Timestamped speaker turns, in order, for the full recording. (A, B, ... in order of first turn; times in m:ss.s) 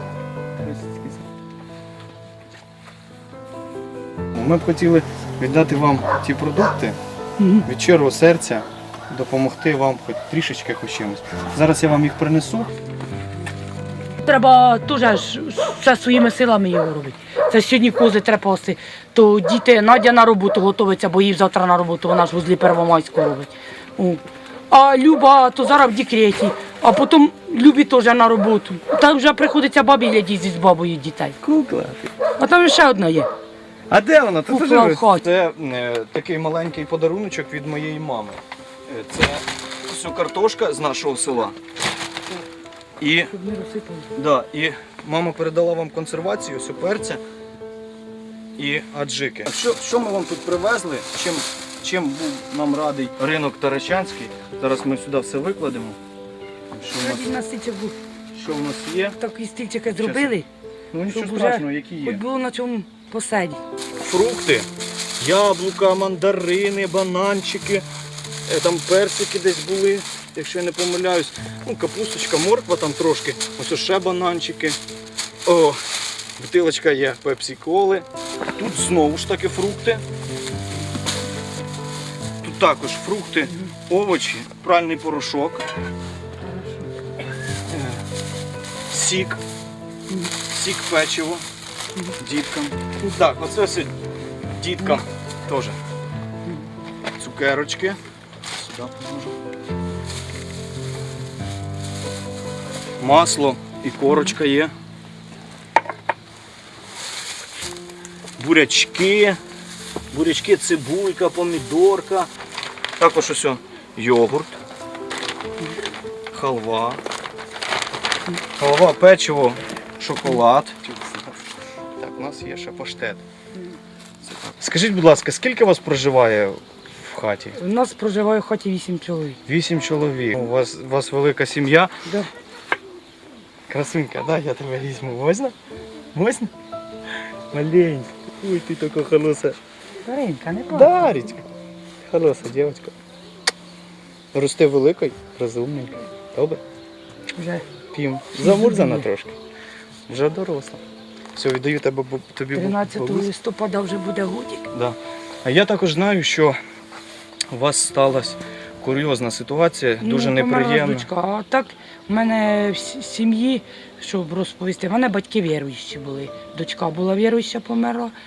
0:00.6-0:01.2 A
0:04.3-0:07.0 A
0:07.6-0:12.7 A
0:14.2-0:31.4 B
0:31.4-0:32.1 A
0:32.4-0:33.3 B
0:33.9-0:41.6 A
0:34.5-0:35.2 B
0:43.0-0:43.3 A
0:43.3-0:44.1 B
0:44.2-0:47.2 A
0:48.6-0:56.0 A
0:56.7-0:57.3 A
0:57.0-0:58.0 B
0:58.3-0:59.2 A
0:59.2-1:00.5 B
0:59.9-1:00.4 A
1:00.9-1:02.2 A
1:01.1-1:03.6 B
1:04.0-1:04.7 A
1:05.2-1:07.8 A
1:08.5-1:14.8 A
1:15.4-1:15.8 A
1:16.4-1:20.0 A
1:22.4-1:25.7 A
1:27.7-1:28.0 A
1:28.9-1:29.4 A
1:30.5-1:31.4 A
1:32.2-1:33.9 A
1:34.6-1:35.8 A
1:37.2-1:38.0 A
1:38.5-1:39.4 A
1:43.0-1:44.7 A
1:48.4-1:49.4 A
1:50.1-1:52.3 A
1:53.0-1:54.6 A
1:56.3-1:57.0 A
1:58.6-2:01.4 A
2:02.0-2:03.2 A
2:04.2-2:07.6 A
2:07.6-2:09.4 B
2:09.5-2:11.9 A
2:13.7-2:15.5 A
2:16.1-2:16.5 A
2:17.5-2:19.6 A
2:20.0-2:21.1 B
2:20.7-2:21.4 A
2:22.1-2:22.9 A
2:24.3-2:26.6 A
2:27.4-2:27.6 B
2:27.9-2:29.4 A
2:28.4-2:29.1 B
2:30.1-2:30.8 A
2:31.4-2:33.3 A
2:32.6-2:34.6 B
2:34.7-2:36.6 A
2:37.5-2:41.1 A
2:40.0-2:48.1 B